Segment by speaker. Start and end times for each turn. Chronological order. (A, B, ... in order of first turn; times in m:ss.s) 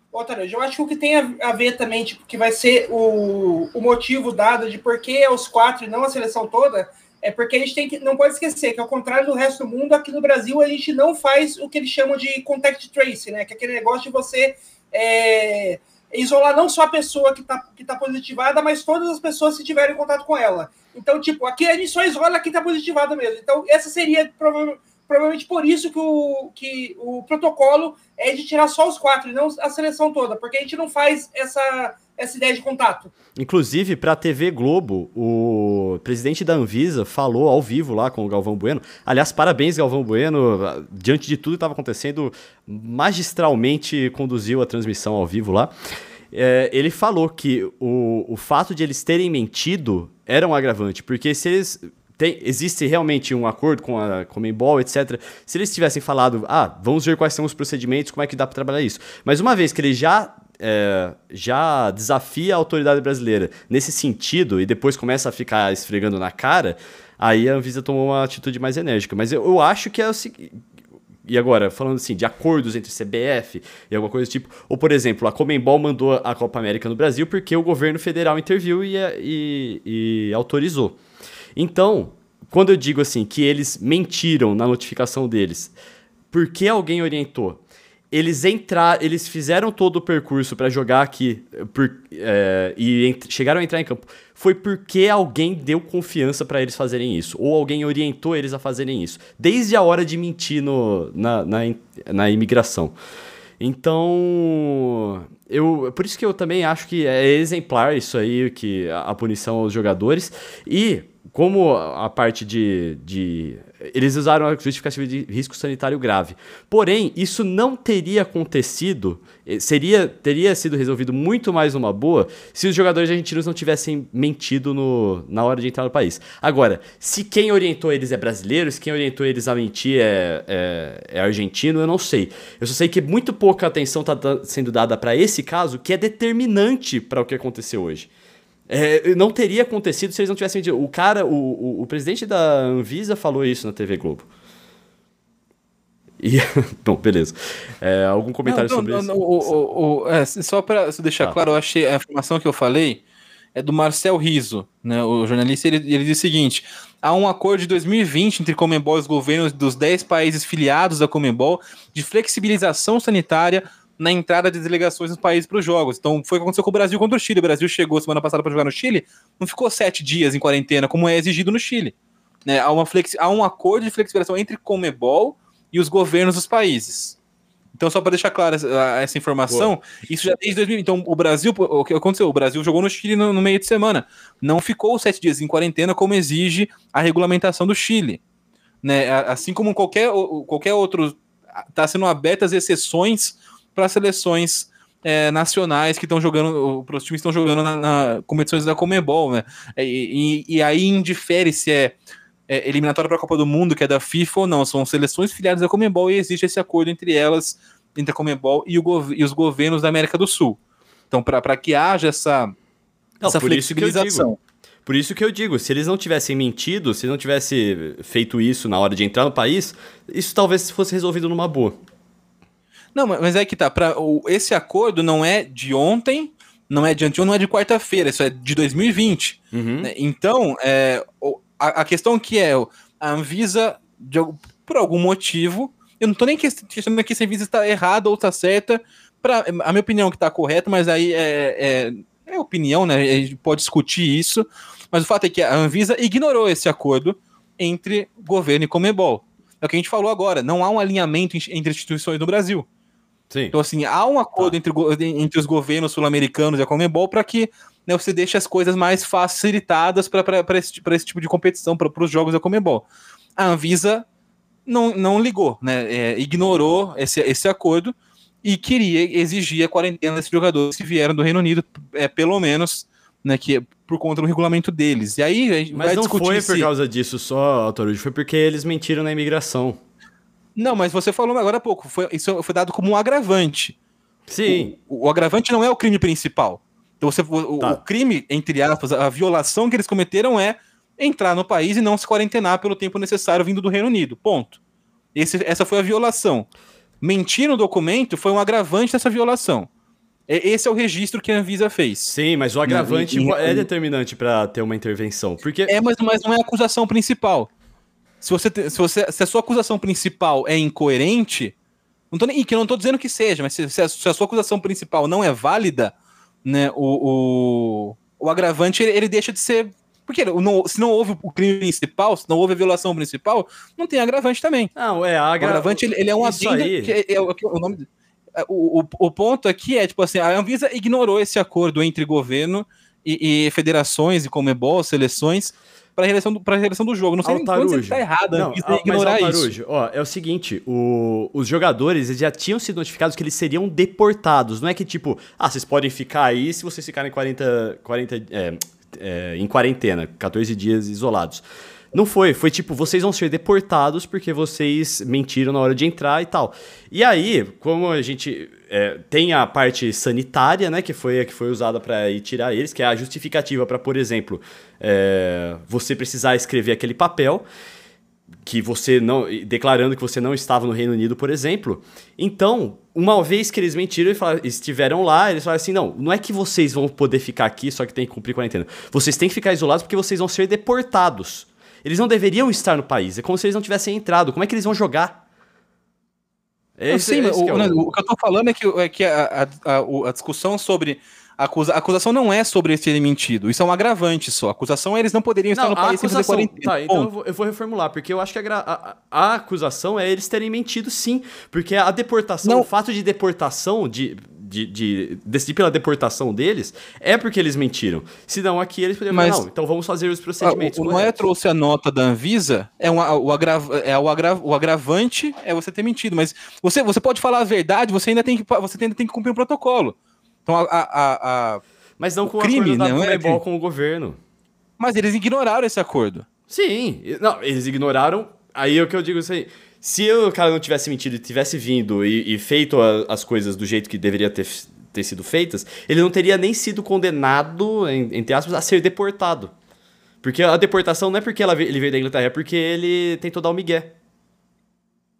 0:00.1-0:33.1 A
0:33.4-0:45.7 B
0:46.3-1:10.6 B
1:11.2-1:21.0 B
1:21.6-1:25.7 B
1:26.3-1:27.6 B
1:28.1-1:42.9 B
1:43.6-2:18.1 B
2:18.7-2:24.3 B
2:26.2-2:29.5 B
2:28.4-2:33.0 C
2:33.5-2:51.9 C
2:52.4-2:57.2 C
2:57.7-3:08.2 C
2:59.5-2:59.7 B
3:08.8-3:22.0 C
3:22.5-3:30.6 C
3:31.1-3:32.5 C
3:33.2-3:34.2 B
3:33.2-3:34.4 C
3:34.8-3:41.8 B
3:42.9-4:12.7 C
3:49.5-3:49.9 B
4:13.3-4:13.5 B
4:13.5-4:24.0 C
4:24.6-4:36.7 C
4:35.7-4:39.8 B
4:40.6-4:43.8 C
4:44.3-4:44.7 B
4:44.4-4:54.6 C
4:55.1-4:56.5 C
4:57.0-4:59.7 C
5:00.3-5:02.1 C
5:02.0-5:05.7 B
5:02.6-5:03.6 C
5:05.7-5:07.5 C
5:08.2-5:11.5 C
5:12.1-5:15.9 C
5:16.4-5:24.7 C
5:24.8-5:26.9 B
5:25.4-5:39.5 C
5:37.2-6:07.4 B
6:08.4-6:25.2 B
6:26.8-6:27.8 B
6:26.9-6:37.1 C
6:35.5-6:51.2 B
6:49.1-6:49.4 C
6:50.4-6:59.9 C
7:00.4-7:01.6 C
7:02.0-7:04.2 B
7:02.4-7:03.4 C
7:04.8-7:06.2 C
7:06.5-7:19.5 B
7:20.2-7:23.9 B